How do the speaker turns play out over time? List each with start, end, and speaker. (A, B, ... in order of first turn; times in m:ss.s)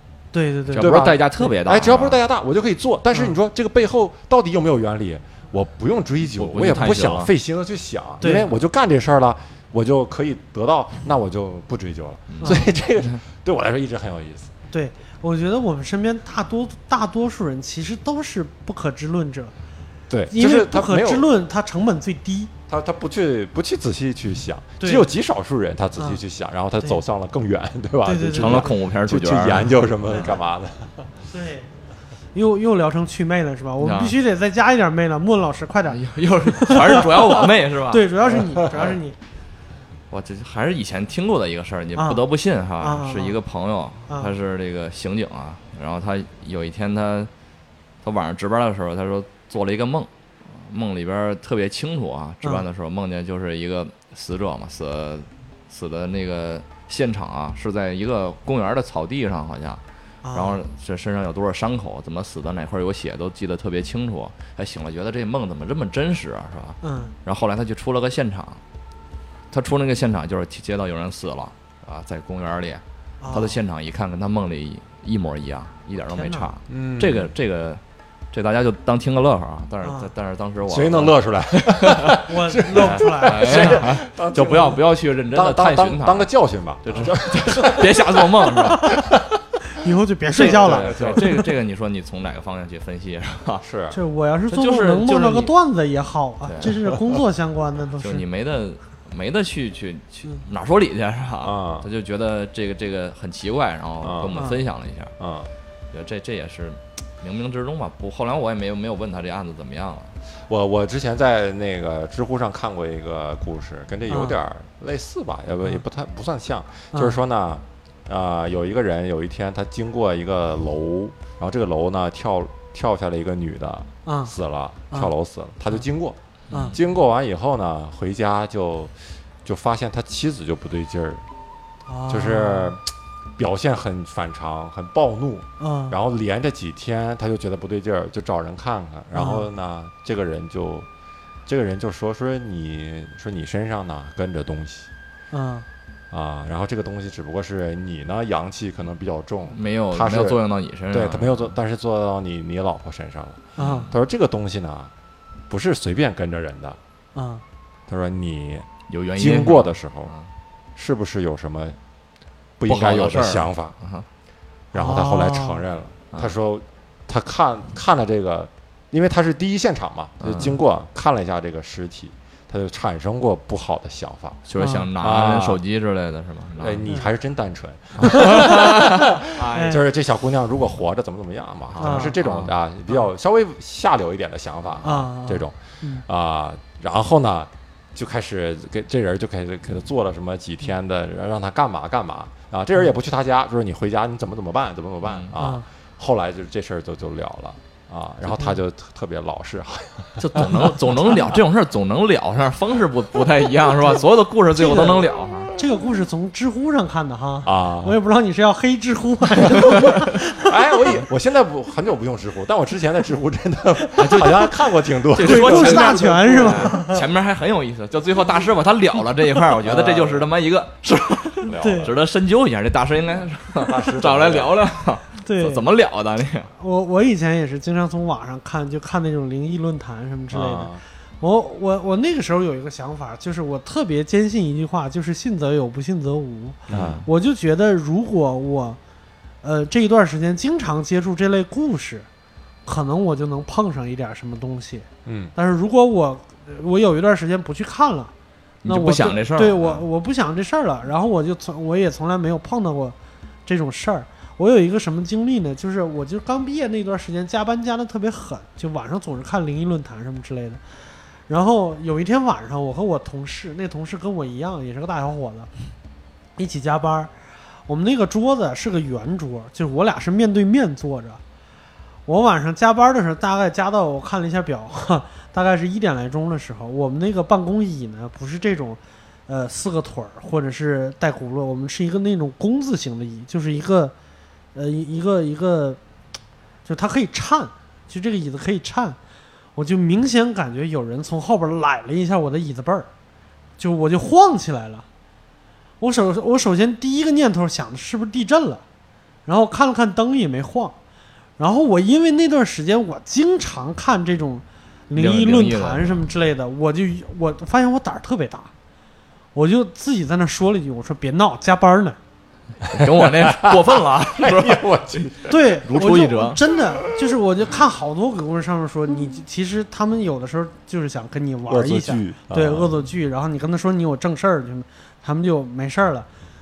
0:00.3-0:01.4 A
0:00.7-0:02.2 B
0:00.7-0:14.5 C
0:06.3-0:07.3 B
0:08.2-0:08.5 A
0:12.3-0:13.1 B
0:12.4-0:12.7 A
0:14.7-0:19.5 A
0:20.1-0:21.3 C
0:20.3-0:22.5 A
0:22.7-0:31.1 C
0:24.8-0:25.1 A
0:28.0-0:28.7 A
0:28.4-0:29.8 B
0:31.3-0:31.7 A
0:32.3-0:39.2 A
0:33.8-0:34.2 B
0:35.9-0:38.1 B
0:40.1-0:47.3 B
0:42.0-0:42.2 A
0:42.8-0:43.4 A
0:44.1-0:44.3 A
0:48.0-0:59.8 B
1:00.2-1:00.6 A
1:00.3-1:08.6 B
1:06.8-1:07.1 A
1:09.5-1:17.8 B
1:13.2-1:13.6 A
1:16.1-1:16.5 A
1:16.7-1:17.3 C
1:18.3-1:26.3 B
1:19.8-1:20.1 A
1:20.7-1:29.3 C
1:22.2-1:23.9 A
1:26.8-1:29.0 B
1:29.7-1:31.5 A
1:30.3-1:33.6 B
1:30.4-1:31.4 C
1:33.6-1:34.0 C
1:33.9-1:38.2 A
1:34.5-1:35.5 B
1:36.4-1:36.7 B
1:38.0-1:45.1 B
1:41.4-1:41.9 C
1:44.0-1:44.4 C
1:44.3-1:44.6 A
1:45.2-1:45.5 C
1:45.9-1:50.2 B
1:50.3-2:06.2 C
1:54.1-1:54.4 A
1:56.9-1:57.2 A
2:04.1-2:04.3 A
2:06.5-2:06.8 B
2:06.5-2:06.8 A
2:06.7-2:11.2 C
2:11.9-2:12.8 A
2:12.1-2:20.9 C
2:15.6-2:16.0 A
2:19.1-2:19.5 A
2:21.5-2:24.9 C
2:25.3-2:25.7 A
2:26.1-2:30.4 C
2:29.5-2:31.6 B
2:30.9-2:34.9 C
2:33.6-2:33.9 A
2:33.6-2:33.9 B
2:35.5-2:36.8 C
2:37.2-2:37.4 A
2:37.9-2:40.1 C
2:38.9-2:40.3 B
2:40.8-2:41.8 C
2:42.6-2:43.8 C
2:42.7-2:44.1 B
2:44.7-2:54.4 C
2:44.7-2:45.6 A
2:50.2-2:50.6 B
2:54.5-2:56.9 B
2:54.6-2:54.9 A
2:55.0-2:55.6 C
2:56.6-3:21.3 C
2:58.0-2:59.8 B
2:59.5-2:59.8 A
3:01.7-3:02.5 B
3:01.8-3:02.2 A
3:04.8-3:06.0 A
3:15.0-3:15.4 B
3:15.4-3:15.6 A
3:20.2-3:25.5 B
3:24.6-3:30.7 A
3:27.4-3:28.0 C
3:29.7-3:36.7 C
3:29.7-3:30.0 B
3:34.0-3:34.6 B
3:35.1-3:46.5 B
3:35.2-3:37.0 A
3:39.6-3:40.3 C
3:41.4-3:42.0 C
3:41.6-3:41.9 A
3:43.6-3:44.6 C
3:45.2-3:45.7 A
3:46.6-3:58.8 A
3:50.3-3:50.8 C
3:56.7-3:57.0 C
3:56.7-3:57.1 B
3:59.4-4:02.1 A
4:02.7-4:08.1 A
4:05.1-4:05.3 C
4:08.6-4:09.8 B
4:08.7-4:20.6 A
4:21.3-4:25.5 A
4:26.4-4:27.1 A
4:27.7-4:31.2 A
4:32.1-4:43.9 A
4:44.6-4:45.8 A
4:46.7-4:49.0 A
4:49.6-4:52.9 A
4:53.6-4:54.9 A
4:55.8-4:58.6 A
4:59.3-5:00.8 A
5:01.4-5:08.5 A
5:05.0-5:06.0 B
5:09.4-5:12.0 A
5:12.7-5:16.4 B
5:12.8-5:16.1 C
5:15.3-5:26.1 A
5:21.5-5:22.8 C